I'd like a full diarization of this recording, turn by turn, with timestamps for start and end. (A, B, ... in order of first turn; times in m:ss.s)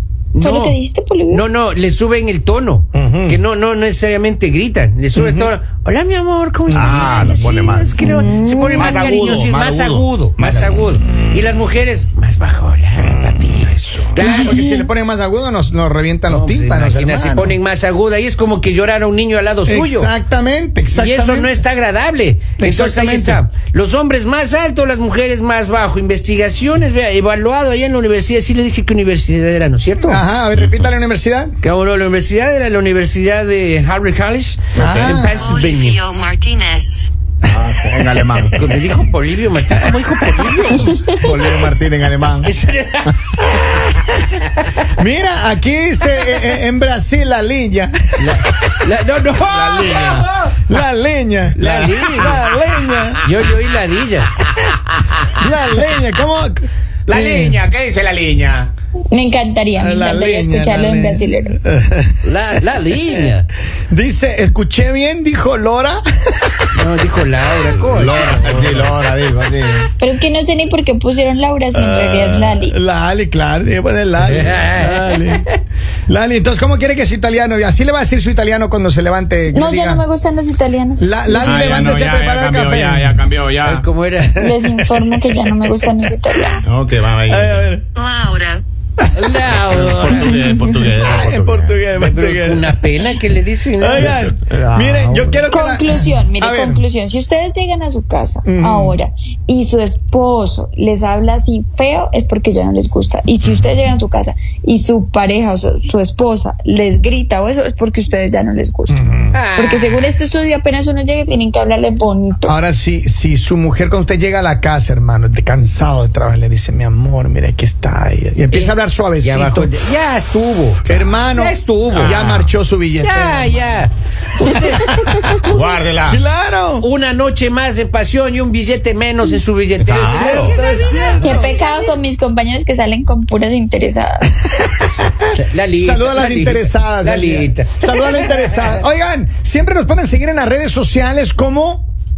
0:00.4-0:00.8 A
0:00.4-0:01.4 B
0:01.3-0:14.6 A
0:02.9-0:03.4 C
0:05.1-0:05.5 C
0:06.7-0:08.1 D
0:06.7-0:08.5 C
0:08.0-0:09.1 B
0:08.6-0:10.6 D
0:10.4-0:11.4 C
0:13.1-0:17.6 C
0:14.2-0:14.9 B
0:16.3-0:20.1 A
0:19.6-0:21.5 C
0:21.0-0:30.2 A
0:22.6-0:23.4 C
0:30.0-0:31.5 C
0:31.6-0:36.0 A
0:34.8-0:35.2 D
0:34.8-0:35.5 C
0:35.3-0:37.1 E
0:37.4-0:38.6 D
0:38.5-0:41.0 A
0:41.0-0:42.5 D
0:42.4-0:44.8 A
0:44.9-0:48.7 C
0:48.2-0:50.6 A
0:49.4-0:50.3 D
0:49.6-0:53.2 C
0:51.5-0:52.4 A
0:53.2-0:54.3 A
0:54.5-0:55.3 D
0:55.4-0:57.6 C
0:57.1-0:58.7 D
0:59.1-1:01.6 B
0:59.8-1:02.2 C
1:02.2-1:03.5 A
1:03.9-1:06.6 C
1:06.7-1:08.9 A
1:07.8-1:09.9 D
1:10.0-1:12.8 B
1:11.7-1:15.5 C
1:14.2-1:15.6 A
1:16.1-1:20.0 C
1:19.5-1:22.0 B
1:21.0-1:23.2 C
1:21.4-1:23.9 D
1:23.6-1:24.5 A
1:24.4-1:25.8 C
1:24.4-1:26.7 B
1:26.6-1:27.7 D
1:27.3-1:27.8 C
1:28.0-1:28.6 E
1:29.0-1:29.3 C
1:29.1-1:30.4 A
1:29.5-1:31.8 D
1:30.3-1:30.6 B
1:30.7-1:32.8 C
1:32.0-1:34.2 A
1:33.8-1:36.8 C
1:34.0-1:35.5 D
1:35.5-1:49.0 B
1:38.4-1:39.0 C
1:48.9-1:49.4 C
1:49.3-1:50.0 A
1:49.5-1:52.5 B
1:52.4-1:59.7 C
1:58.5-2:02.2 A
2:00.8-2:03.6 C
2:01.9-2:02.5 D
2:03.0-2:05.3 A
2:04.4-2:05.4 C
2:04.9-2:05.2 B
2:05.4-2:06.2 D
2:06.0-2:06.9 C
2:06.8-2:12.0 A
2:09.8-2:10.6 D
2:10.0-2:11.6 C
2:11.2-2:14.3 B
2:15.2-2:18.8 A
2:15.8-2:21.9 C